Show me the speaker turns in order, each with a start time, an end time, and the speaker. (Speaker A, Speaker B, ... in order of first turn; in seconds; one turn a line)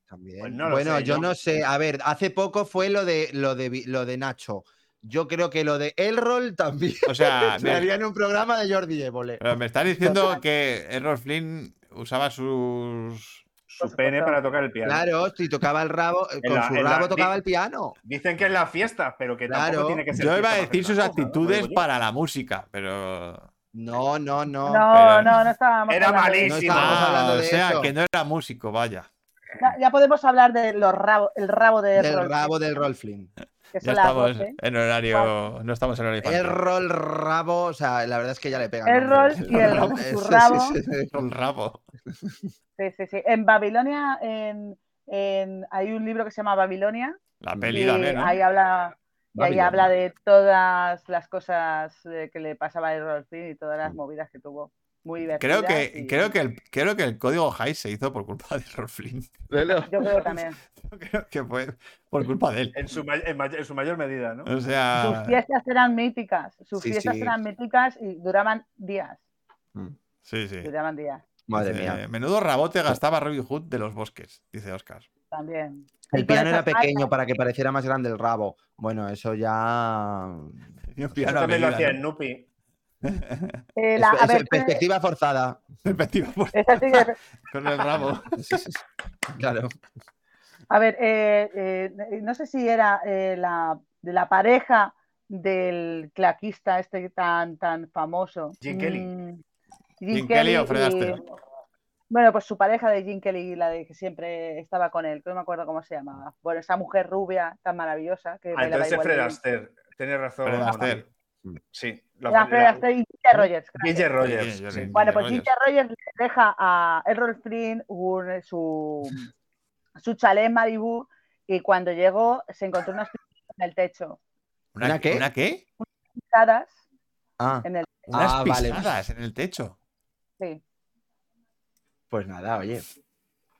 Speaker A: 0.1-9.4
Speaker B: 0.4-1.3
Speaker C: 7.0-7.9
Speaker C: 9.4-13.4
Speaker A: 10.0-10.4
Speaker B: 13.7-15.0
Speaker D: 13.8-14.3
Speaker A: 14.8-17.9
Speaker B: 16.4-17.3
Speaker B: 18.0-21.8
Speaker A: 19.5-20.0
Speaker C: 20.1-23.5
Speaker A: 23.7-24.9
Speaker D: 24.6-26.9
Speaker C: 24.9-25.4
Speaker B: 25.9-27.0
Speaker A: 26.4-27.9
Speaker C: 26.7-29.1
Speaker D: 29.6-32.5
Speaker A: 31.9-33.3
Speaker D: 33.7-34.6
Speaker C: 33.8-36.6
Speaker A: 36.2-41.2
Speaker D: 38.8-40.8
Speaker C: 39.5-40.0
Speaker C: 41.1-41.8
Speaker D: 42.8-47.2
Speaker C: 47.4-48.4
Speaker A: 47.5-47.8
Speaker D: 47.7-56.3
Speaker A: 49.3-49.9
Speaker C: 55.4-59.3
Speaker A: 59.5-60.2
Speaker D: 59.9-60.6
Speaker C: 60.8-62.8
Speaker B: 62.7-64.5
Speaker C: 64.4-65.4
Speaker D: 65.0-69.2
Speaker A: 66.8-67.4
Speaker C: 70.2-70.7
Speaker D: 70.6-71.2
Speaker A: 71.5-72.0
Speaker C: 71.5-75.1
Speaker D: 75.3-77.1
Speaker A: 76.1-80.6
Speaker C: 80.9-82.0
Speaker B: 81.2-82.4
Speaker C: 83.0-83.6
Speaker D: 83.8-84.8
Speaker A: 83.9-85.7
Speaker C: 85.8-88.7
Speaker D: 86.5-87.2
Speaker A: 87.9-88.8
Speaker A: 89.3-89.7
Speaker D: 90.7-99.4
Speaker B: 98.6-99.1
Speaker D: 100.0-101.2
Speaker C: 100.1-101.2
Speaker D: 102.1-109.4
Speaker B: 108.5-111.1
Speaker C: 110.4-111.0
Speaker B: 111.7-112.8
Speaker D: 112.3-114.1
Speaker B: 113.8-114.9
Speaker C: 114.2-115.5
Speaker D: 114.9-119.3
Speaker D: 120.0-124.2
Speaker C: 124.7-125.6
Speaker A: 124.8-125.2
Speaker D: 125.8-126.8
Speaker A: 127.4-128.9
Speaker D: 127.6-128.1
Speaker C: 128.1-129.8
Speaker A: 132.1-132.8